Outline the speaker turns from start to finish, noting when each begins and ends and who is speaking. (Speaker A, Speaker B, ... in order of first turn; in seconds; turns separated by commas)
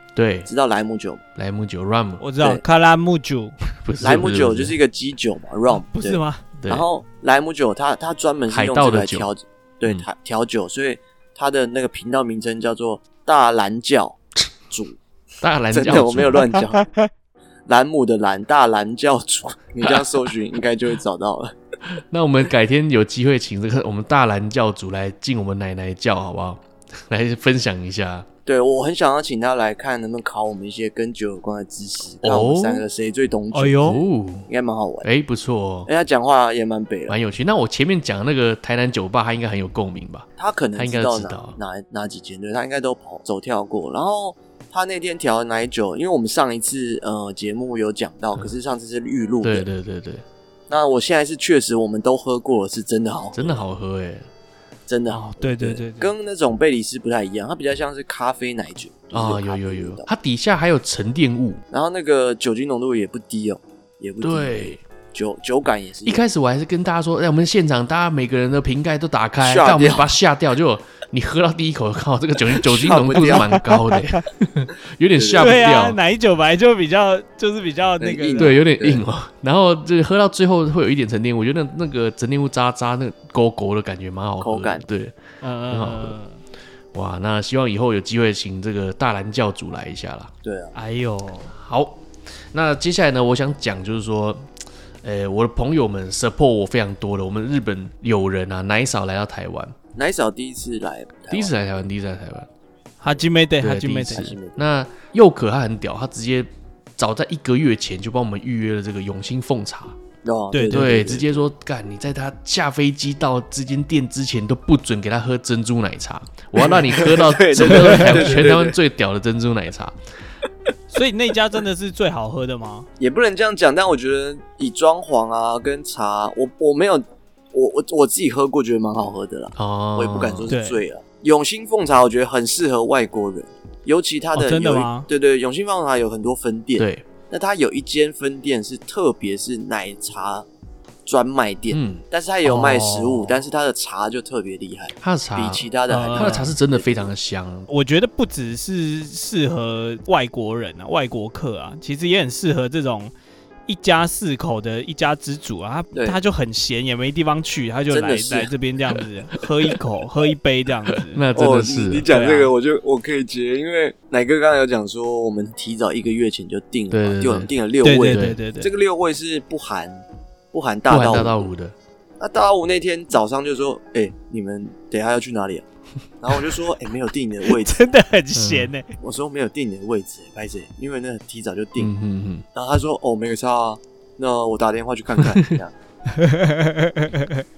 Speaker A: 0.1-0.5, Speaker B: 0.5-1.2, Speaker A: 1.4-2.2, Speaker C: 2.2-3.5, Speaker A: 3.8-4.8, Speaker B: 4.0-15.0, Speaker C: 5.7-6.5, Speaker A: 6.6-6.8, Speaker A: 8.5-9.3, Speaker A: 15.4-16.5, Speaker B: 15.7-16.9, Speaker B: 17.7-21.5, Speaker A: 21.9-28.3, Speaker B: 28.4-35.1, Speaker A: 32.2-32.9, Speaker C: 33.5-34.0, Speaker A: 33.8-34.5, Speaker A: 35.0-35.9, Speaker B: 35.9-37.2, Speaker A: 37.1-41.6, Speaker B: 40.4-49.7, Speaker A: 49.4-50.2, Speaker B: 50.7-53.6, Speaker A: 53.3-54.3, Speaker B: 54.9-60.1, Speaker C: 55.1-56.1, Speaker A: 59.1-61.6, Speaker B: 61.7-66.2, Speaker A: 64.2-64.8, Speaker A: 66.0-76.0, Speaker B: 69.4-70.1, Speaker B: 72.5-73.5, Speaker B: 75.2-75.7, Speaker C: 75.4-78.6, Speaker B: 78.0-79.0, Speaker A: 78.3-85.2, Speaker B: 84.4-84.8, Speaker C: 85.4-86.3, Speaker A: 85.7-86.2, Speaker A: 86.9-90.3, Speaker B: 90.4-90.8, Speaker C: 90.7-91.5, Speaker A: 91.5-94.5, Speaker A: 95.0-99.7, Speaker B: 100.0-101.8, Speaker A: 101.3-102.5, Speaker C: 103.0-104.3, Speaker A: 103.6-110.0, Speaker B: 104.1-104.6, Speaker B: 110.2-111.5, Speaker C: 110.5-111.0, Speaker A: 110.7-120.0, Speaker B: 116.6-118.8, Speaker C: 117.6-118.3, Speaker C: 120.9-122.9, Speaker B: 123.0-140.5, Speaker A: 129.6-130.5, Speaker C: 130.5-130.8, Speaker C: 134.3-135.1, Speaker A: 136.8-137.1, Speaker B: 141.1-147.1, Speaker A: 141.7-142.0, Speaker C: 142.4-143.3, Speaker A: 145.0-147.7, Speaker C: 145.9-146.5, Speaker C: 147.7-153.1, Speaker C: 153.7-161.2, Speaker B: 155.9-156.2, Speaker B: 157.9-158.5, Speaker A: 160.9-162.1, Speaker B: 161.3-171.5, Speaker C: 162.1-162.5, Speaker A: 166.9-168.4, Speaker C: 167.8-168.7, Speaker A: 170.9-171.7, Speaker B: 172.2-175.6, Speaker B: 176.2-177.8, Speaker C: 177.5-178.9, Speaker A: 178.3-178.7, Speaker B: 179.0-181.9, Speaker A: 181.8-182.4, Speaker B: 182.5-185.7, Speaker A: 185.2-185.6, Speaker C: 186.1-187.4